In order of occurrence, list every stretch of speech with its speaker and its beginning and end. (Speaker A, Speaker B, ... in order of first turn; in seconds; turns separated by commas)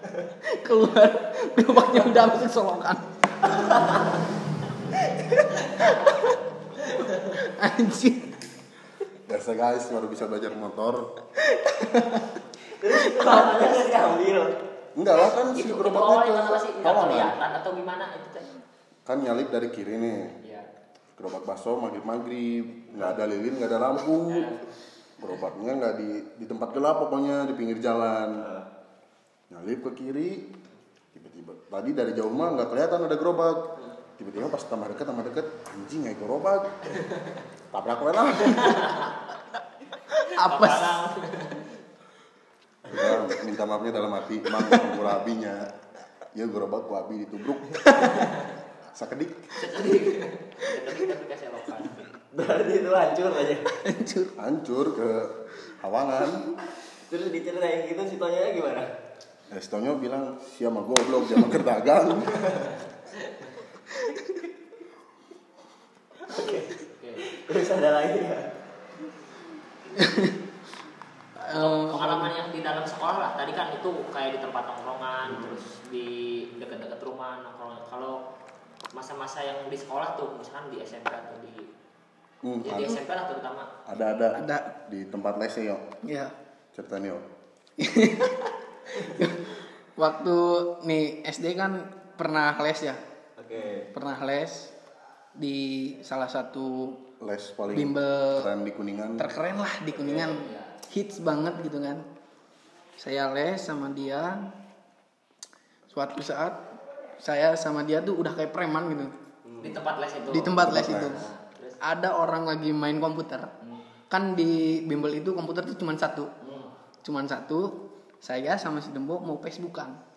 Speaker A: 0.5-3.0, Speaker B: 3.5-4.2, Speaker A: 5.5-6.3, Speaker A: 7.3-8.3, Speaker C: 9.3-11.1, Speaker A: 11.4-12.4, Speaker B: 12.7-14.6, Speaker A: 12.9-13.4, Speaker C: 15.0-17.4, Speaker D: 15.5-18.5, Speaker C: 19.1-20.4, Speaker D: 20.4-20.7, Speaker C: 21.2-24.5, Speaker D: 24.3-24.6, Speaker C: 25.2-28.5, Speaker B: 28.4-28.7, Speaker C: 29.5-30.5, Speaker C: 31.1-36.9, Speaker C: 37.7-38.9, Speaker D: 38.5-39.1, Speaker A: 40.1-41.1, Speaker D: 40.4-41.6, Speaker C: 42.9-45.7, Speaker C: 46.3-48.1, Speaker A: 47.9-48.2, Speaker C: 48.9-49.6, Speaker D: 49.6-52.0, Speaker B: 52.3-53.7, Speaker A: 53.7-54.3, Speaker C: 54.4-56.5, Speaker B: 57.1-58.9, Speaker C: 59.5-62.4, Speaker B: 62.3-62.8, Speaker A: 64.0-64.4, Speaker B: 66.3-68.5, Speaker D: 67.0-67.2, Speaker A: 70.0-70.4, Speaker A: 71.4-72.3, Speaker D: 71.5-78.2, Speaker D: 78.9-81.7, Speaker C: 82.4-83.0, Speaker D: 82.6-84.3, Speaker C: 83.9-85.9, Speaker A: 84.3-84.7, Speaker A: 86.0-86.3, Speaker C: 86.7-87.3, Speaker A: 87.8-93.0, Speaker B: 93.4-93.9, Speaker A: 93.9-94.7, Speaker A: 95.4-97.0, Speaker C: 97.2-99.3, Speaker A: 97.7-98.5, Speaker A: 99.2-102.1, Speaker D: 100.1-100.8, Speaker A: 103.0-104.5, Speaker A: 105.9-106.6, Speaker A: 107.2-109.1, Speaker B: 109.5-109.8, Speaker D: 109.6-111.8, Speaker A: 110.3-111.2, Speaker C: 110.6-111.2, Speaker A: 111.8-113.5, Speaker A: 114.1-116.3, Speaker D: 116.4-116.7, Speaker A: 117.0-120.0